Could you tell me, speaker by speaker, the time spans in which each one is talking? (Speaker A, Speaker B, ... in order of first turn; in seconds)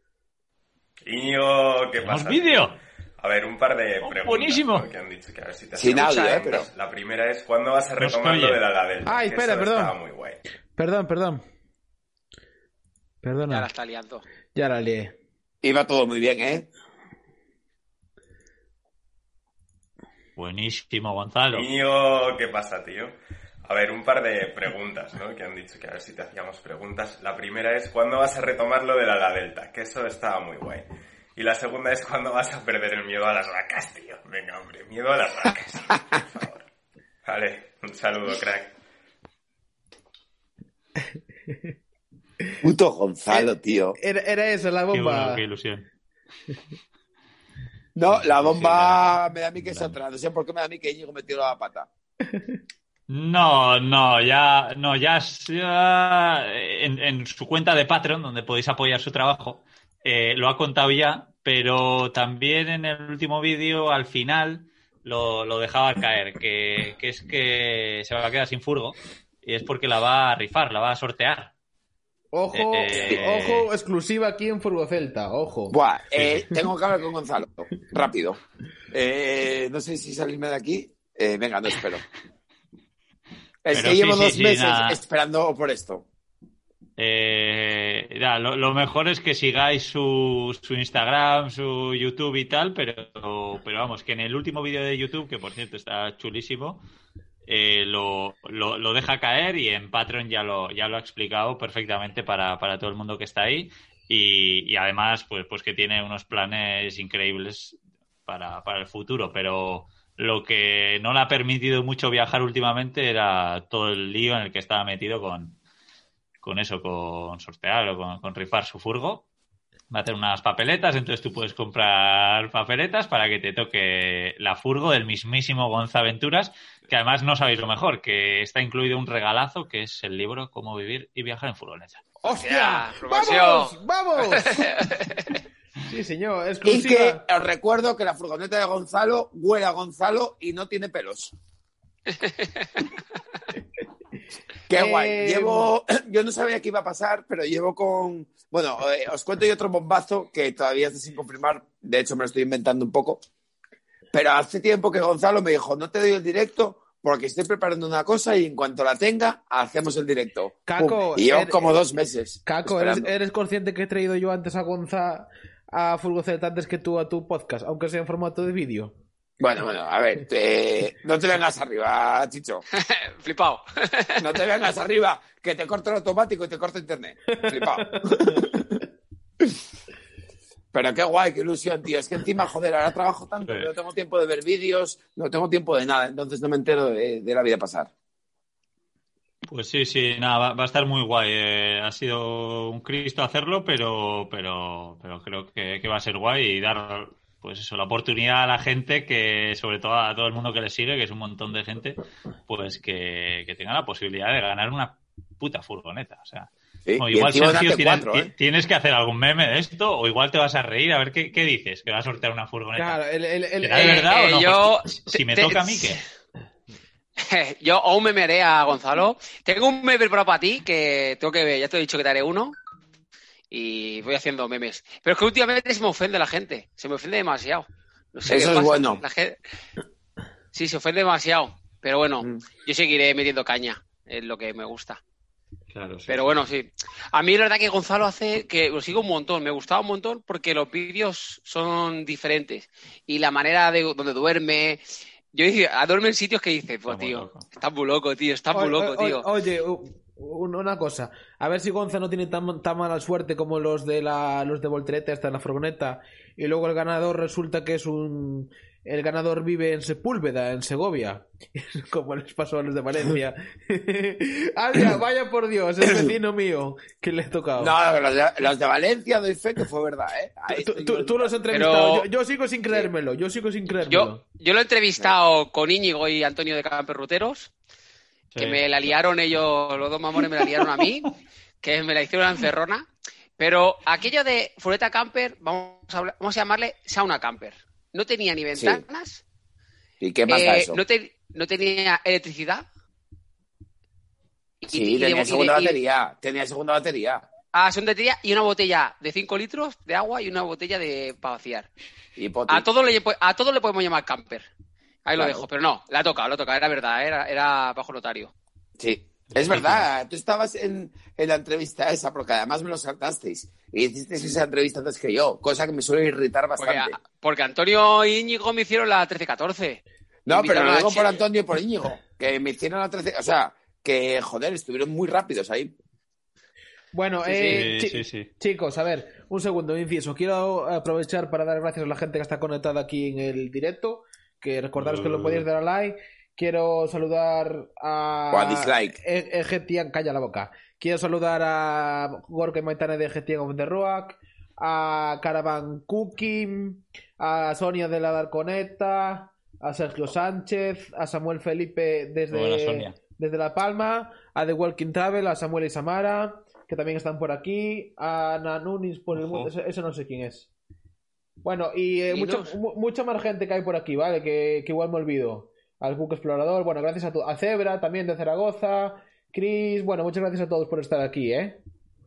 Speaker A: 1.0-10.4, 21.5-36.6, 37.2-38.7
Speaker B: 2.0-2.8, 4.0-4.9, 8.0-8.6, 20.4-21.7, 44.9-45.9, 48.1-49.1, 49.7-50.0, 53.1-71.5, 72.5-73.7, 76.1-76.5, 83.7-85.0, 87.0-96.8, 97.5-115.5, 116.4-119.2, 119.9-132.0, 183.4-183.7, 189.4-213.0, 213.6-216.0, 235.7-236.3, 246.9-247.4, 278.3-278.6, 280.6-280.8, 309.3-309.9, 327.4-328.3, 334.8-335.4, 352.3-352.9, 359.1-359.5
Speaker C: 5.8-6.7, 15.6-16.7, 42.6-44.0, 47.9-51.9, 72.9-73.2, 75.7-78.4, 78.9-82.0, 83.6-86.0, 136.6-141.3, 144.7-153.2, 154.1-163.1, 169.4-172.6, 174.2-178.6, 180.7-187.9, 206.9-208.3, 228.3-229.0, 265.8-266.1, 267.6-271.4, 288.6-288.8, 290.0-290.8, 294.7-297.2, 302.2-302.6, 305.2-305.4, 308.8-316.9, 320.2-325.7, 338.3-338.9
Speaker D: 5.9-6.7, 13.5-14.2, 132.3-135.2, 142.1-142.8, 172.7-174.3, 214.0-216.0, 217.2-222.5, 223.5-229.4, 230.5-235.0, 236.1-244.8, 245.3-249.2, 271.5-272.1, 273.9-277.5, 278.4-289.2, 290.3-292.6, 294.6-295.8, 297.5-301.7, 302.5-304.5, 305.0-308.3, 316.6-321.2, 327.2-327.7, 362.1-362.5
Speaker E: 9.0-9.9, 10.8-11.4, 13.2-13.7, 14.5-15.1, 43.3-45.4, 52.3-52.6, 72.3-75.8, 132.2-134.9, 135.8-137.2, 144.7-145.7, 160.7-161.8, 162.4-168.9, 177.3-178.5, 212.7-214.1, 248.5-267.7, 270.5-274.2, 326.9-360.5, 361.4-371.6